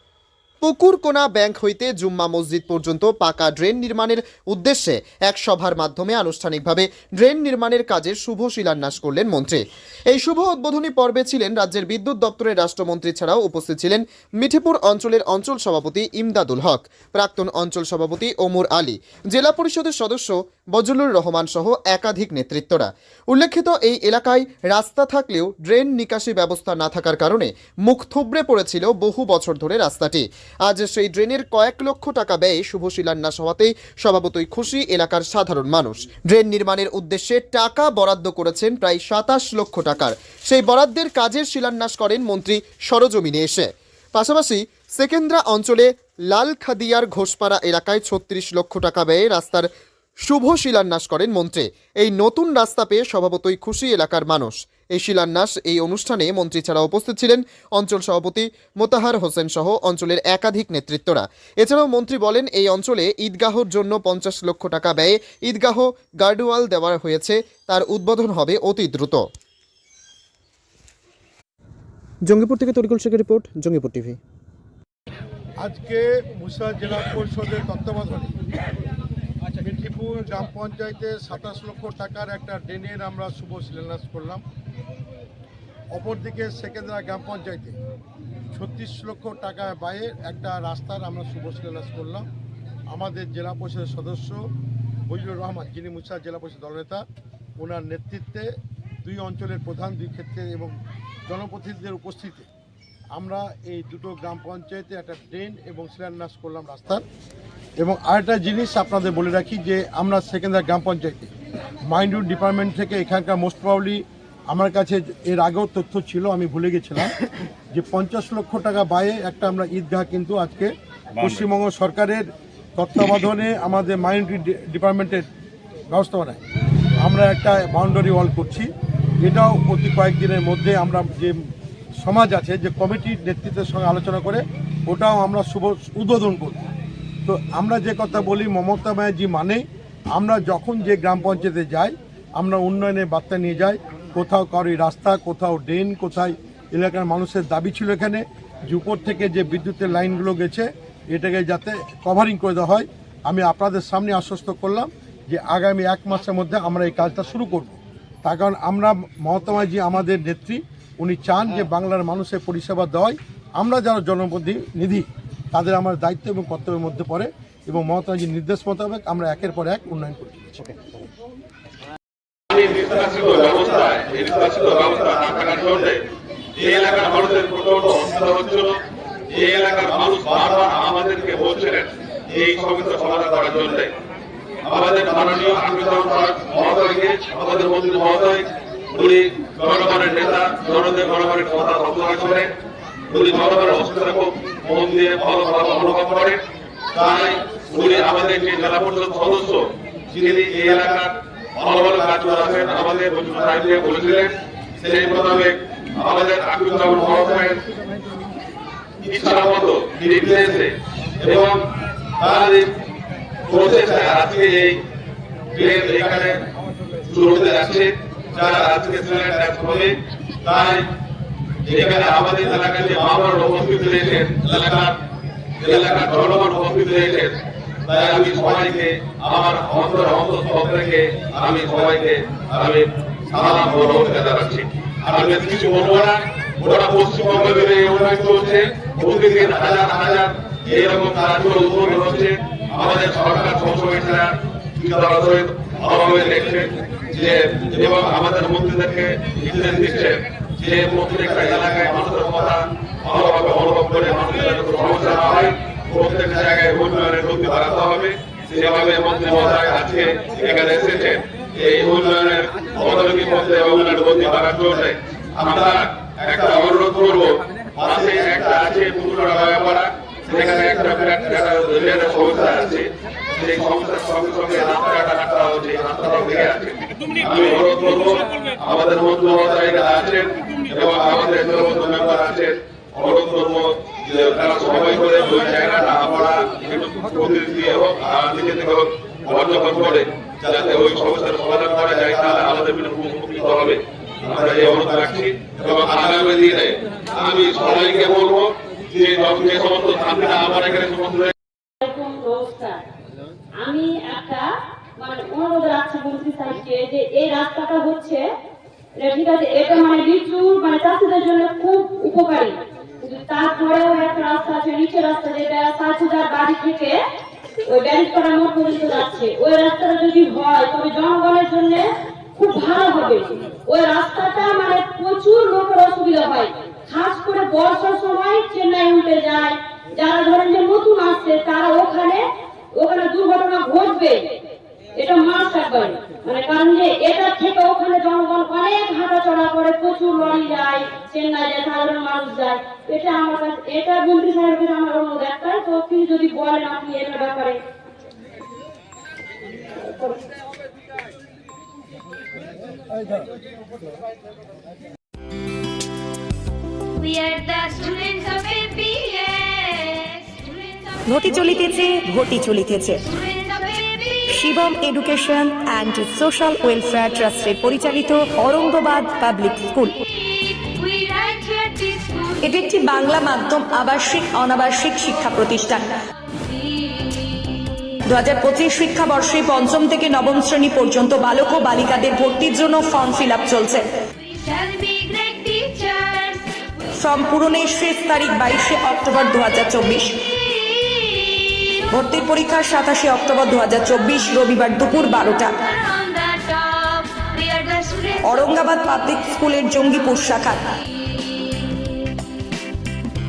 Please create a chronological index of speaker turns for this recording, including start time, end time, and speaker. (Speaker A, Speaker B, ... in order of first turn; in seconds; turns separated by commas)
Speaker A: 0.6-49.7, Speaker A: 50.2-69.2, Speaker A: 72.3-74.2, Speaker B: 75.6-78.3, Speaker B: 79.6-84.4, Speaker B: 85.9-87.7, Speaker B: 88.5-92.2, Speaker B: 92.9-94.4, Speaker B: 95.1-97.0, Speaker B: 97.6-98.5, Speaker B: 99.0-100.7, Speaker B: 101.2-102.5, Speaker B: 103.1-107.0, Speaker B: 107.8-111.3, Speaker B: 111.8-117.2, Speaker B: 117.7-122.2, Speaker B: 122.8-125.2, Speaker B: 125.9-126.4, Speaker B: 127.0-128.7, Speaker B: 129.2-131.4, Speaker B: 132.0-136.7, Speaker B: 137.2-139.6, Speaker B: 140.2-170.8, Speaker C: 172.5-176.0, Speaker C: 176.6-183.9, Speaker C: 184.7-192.5, Speaker C: 193.1-196.4, Speaker C: 196.9-207.6, Speaker C: 209.0-211.6, Speaker C: 212.2-212.7, Speaker C: 213.5-214.8, Speaker C: 215.5-216.4, Speaker C: 217.1-220.8, Speaker C: 221.7-225.0, Speaker C: 225.6-227.4, Speaker C: 227.9-301.3, Speaker D: 301.8-302.8, Speaker D: 303.6-308.2, Speaker D: 308.9-317.0, Speaker D: 317.6-334.2, Speaker D: 334.9-347.6, Speaker E: 356.9-361.2, Speaker F: 361.1-363.0, Speaker E: 363.0-364.4, Speaker F: 364.3-370.0, Speaker E: 370.0-372.5, Speaker F: 372.4-375.9, Speaker E: 376.3-377.7, Speaker F: 378.1-383.9, Speaker E: 384.2-386.7, Speaker F: 386.9-390.2, Speaker E: 390.3-391.8, Speaker F: 391.9-395.6, Speaker E: 395.6-398.3, Speaker F: 398.2-400.7, Speaker E: 401.0-401.9